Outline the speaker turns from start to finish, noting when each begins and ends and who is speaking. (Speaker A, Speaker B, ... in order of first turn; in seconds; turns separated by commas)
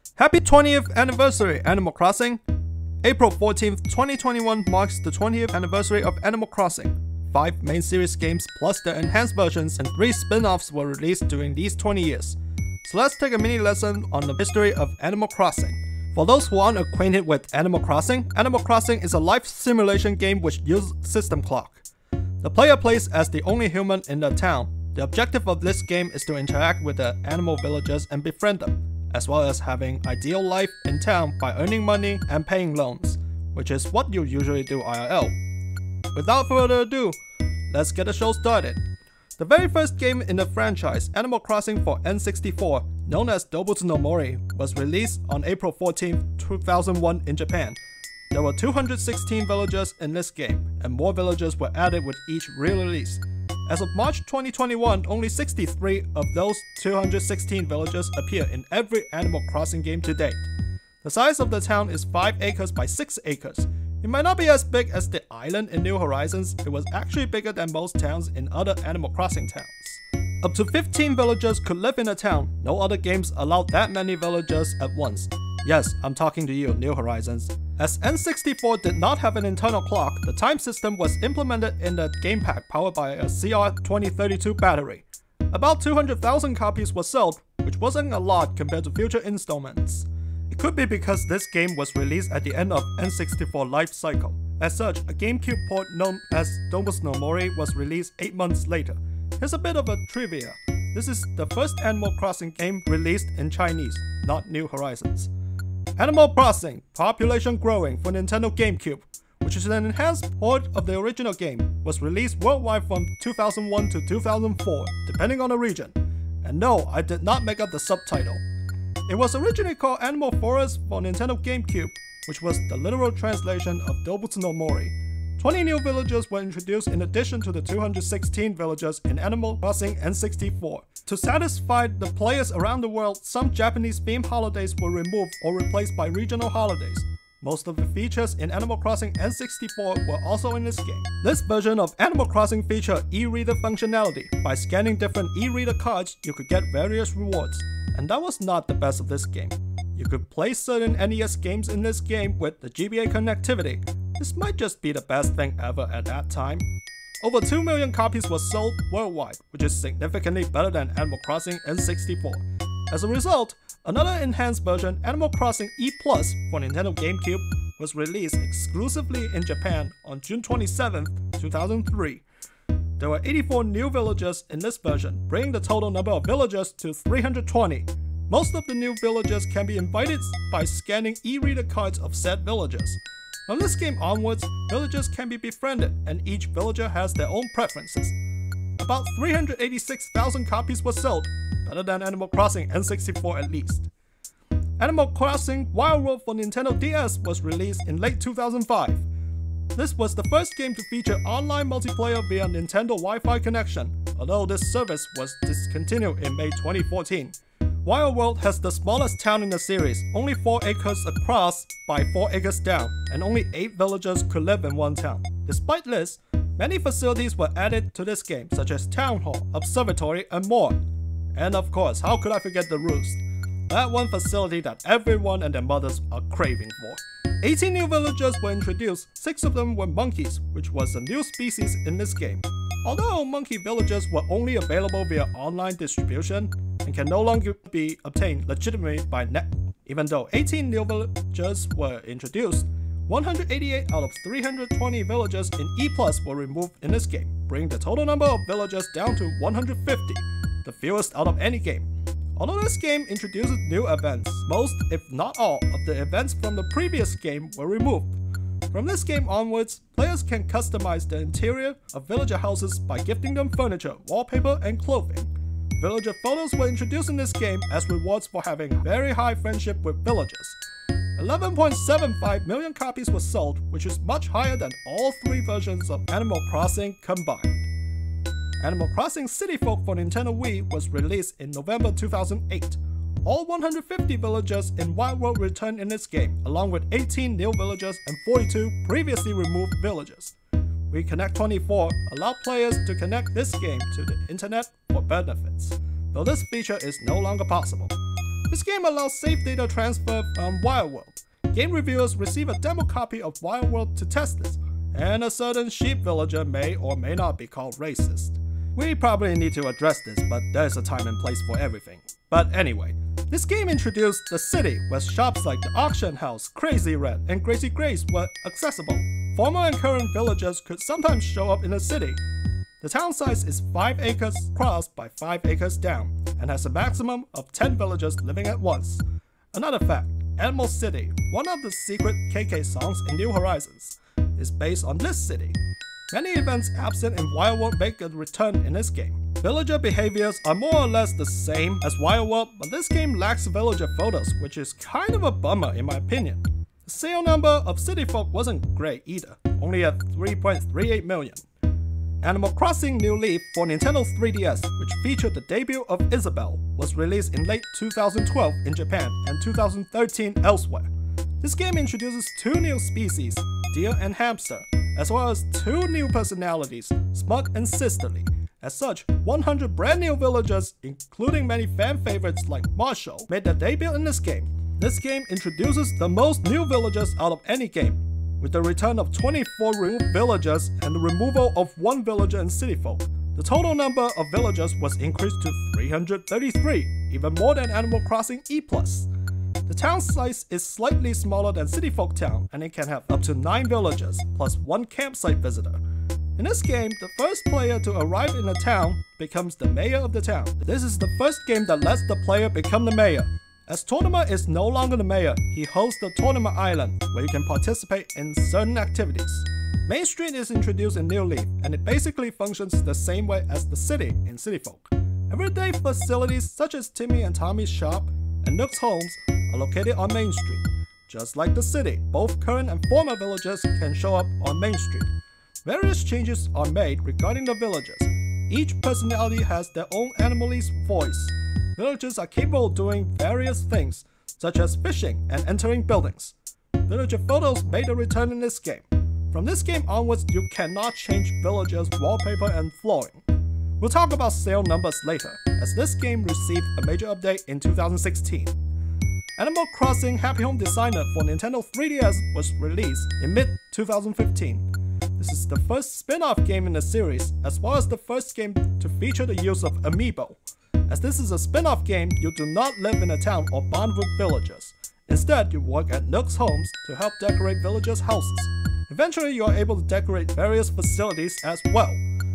Speaker A: 0.2-2.4, Speaker A: 3.0-21.8, Speaker A: 22.4-35.3, Speaker A: 36.1-37.2, Speaker A: 37.7-38.8, Speaker A: 39.4-47.8, Speaker A: 48.3-60.5, Speaker A: 61.0-105.3, Speaker A: 106.0-118.4, Speaker A: 119.1-156.7, Speaker A: 157.2-172.2, Speaker A: 173.0-188.1, Speaker A: 188.8-193.9, Speaker A: 194.8-199.0, Speaker A: 199.7-220.8, Speaker A: 221.3-258.1, Speaker A: 258.7-270.6, Speaker A: 271.2-277.7, Speaker A: 278.6-290.3, Speaker A: 290.9-298.0, Speaker A: 298.5-322.2, Speaker A: 322.8-335.6, Speaker A: 336.1-351.4, Speaker A: 352.2-389.1, Speaker A: 389.6-395.8, Speaker A: 396.4-425.1, Speaker A: 425.6-436.3, Speaker A: 436.9-443.2, Speaker A: 443.8-448.5, Speaker A: 449.4-472.0